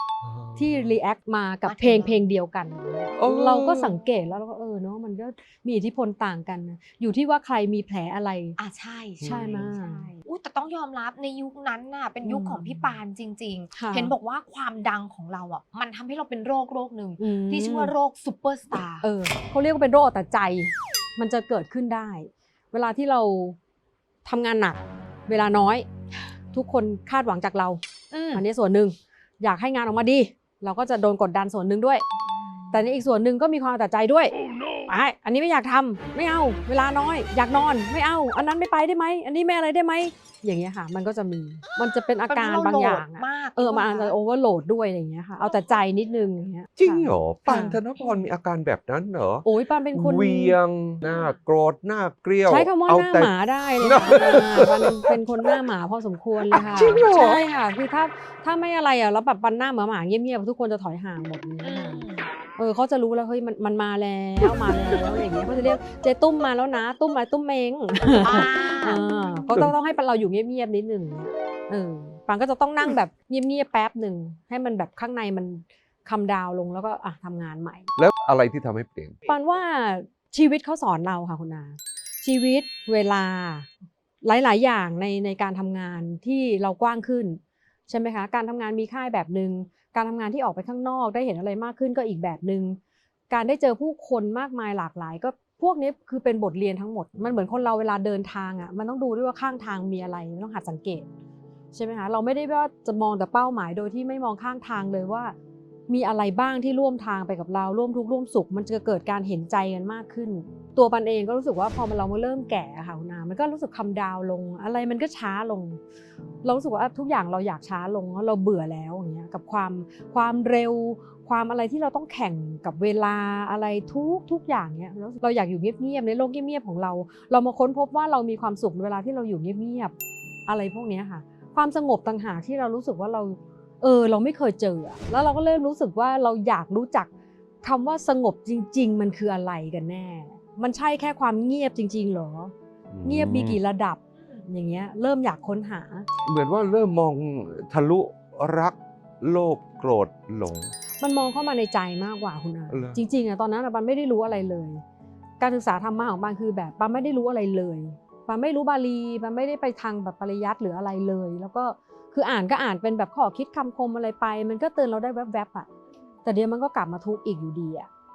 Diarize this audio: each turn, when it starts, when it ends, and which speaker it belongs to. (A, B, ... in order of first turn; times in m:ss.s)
0:00.2-0:01.0 A
0:00.6-0:08.6 B
0:01.6-0:02.3 C
0:03.2-0:04.0 A
0:08.6-0:19.0 C
0:09.2-0:09.7 A
0:09.2-0:10.1 B
0:12.2-0:13.0 B
0:13.8-0:14.2 B
0:17.2-0:18.0 B
0:19.0-0:23.6 B
0:24.2-0:25.9 B
0:26.5-0:27.8 B
0:28.1-0:28.4 C
0:28.3-0:32.0 B
0:32.4-0:32.8 C
0:32.7-0:34.4 B
0:34.9-0:47.8 B
0:42.3-0:44.2 C
0:46.8-0:55.1 A
0:49.4-0:50.6 B
0:52.5-1:02.0 B
0:56.5-0:57.4 A
1:01.6-1:02.3 C
1:02.6-1:17.9 B
1:08.2-1:09.0 C
1:18.0-1:19.2 A
1:19.3-1:23.7 B
1:24.2-1:32.8 B
1:33.3-1:41.1 B
1:41.7-1:45.4 B
1:45.9-1:55.8 B
1:56.4-2:10.0 B
2:10.5-2:17.1 B
2:17.6-2:22.5 B
2:22.9-2:23.6 A
2:23.0-2:26.1 B
2:26.3-2:30.7 A
2:31.0-2:34.8 B
2:32.7-2:33.0 A
2:35.4-2:45.7 B
2:46.2-2:47.9 B